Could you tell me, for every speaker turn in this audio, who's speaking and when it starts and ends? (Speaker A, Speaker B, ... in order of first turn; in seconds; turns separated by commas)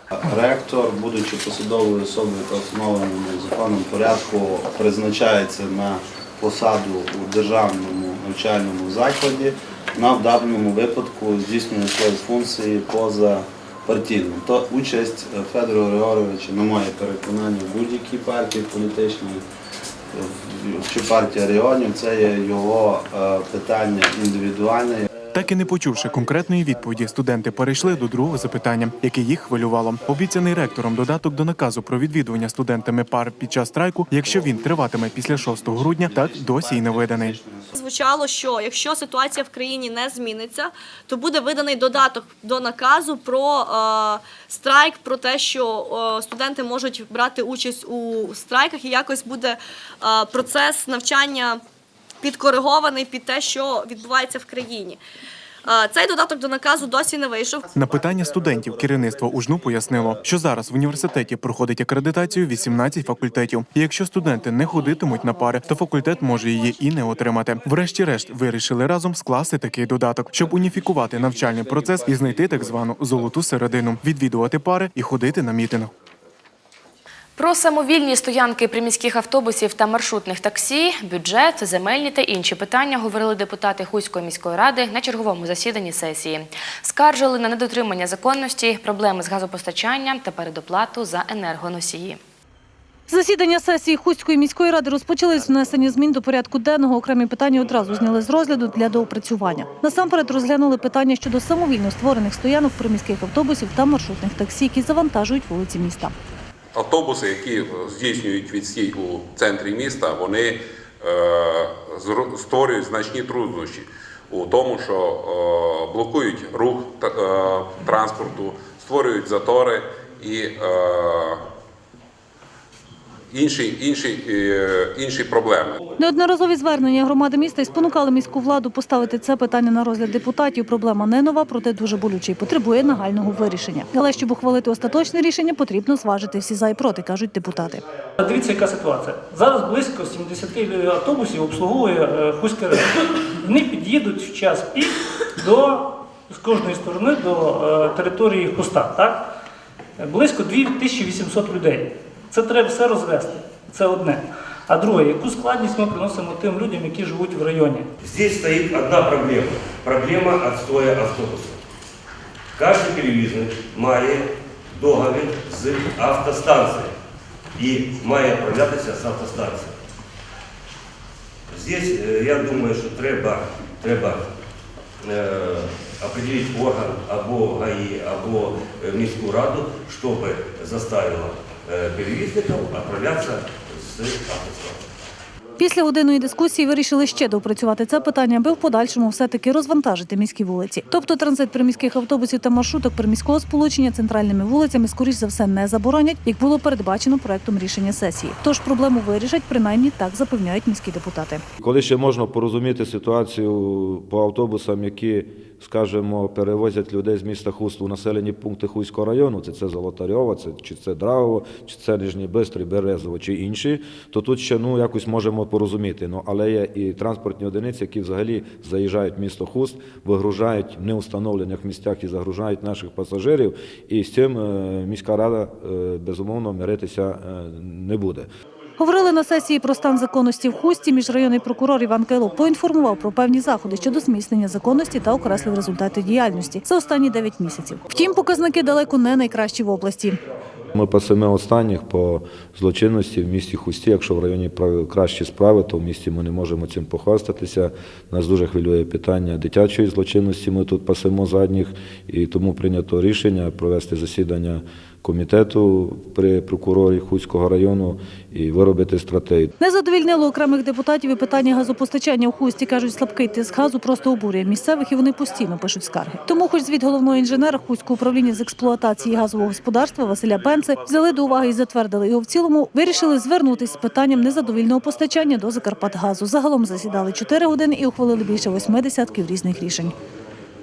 Speaker A: 0.1-19.4, Speaker A: 20.1-25.2, Speaker B: 25.2-37.4, Speaker C: 37.7-51.6, Speaker C: 52.2-55.0, Speaker C: 55.6-57.6, Speaker B: 57.7-75.9, Speaker D: 77.4-92.2, Speaker E: 93.1-106.1, Speaker F: 106.7-121.4, Speaker F: 123.3-125.8, Speaker E: 126.0-137.8, Speaker G: 138.2-149.3, Speaker G: 150.0-157.9, Speaker H: 158.0-161.6, Speaker H: 162.6-166.9, Speaker H: 167.6-169.7, Speaker H: 171.5-174.2, Speaker H: 175.0-184.8, Speaker E: 185.6-201.4, Speaker I: 201.6-228.3, Speaker E: 228.8-240.2, Speaker I: 240.7-259.5, Speaker E: 259.6-279.9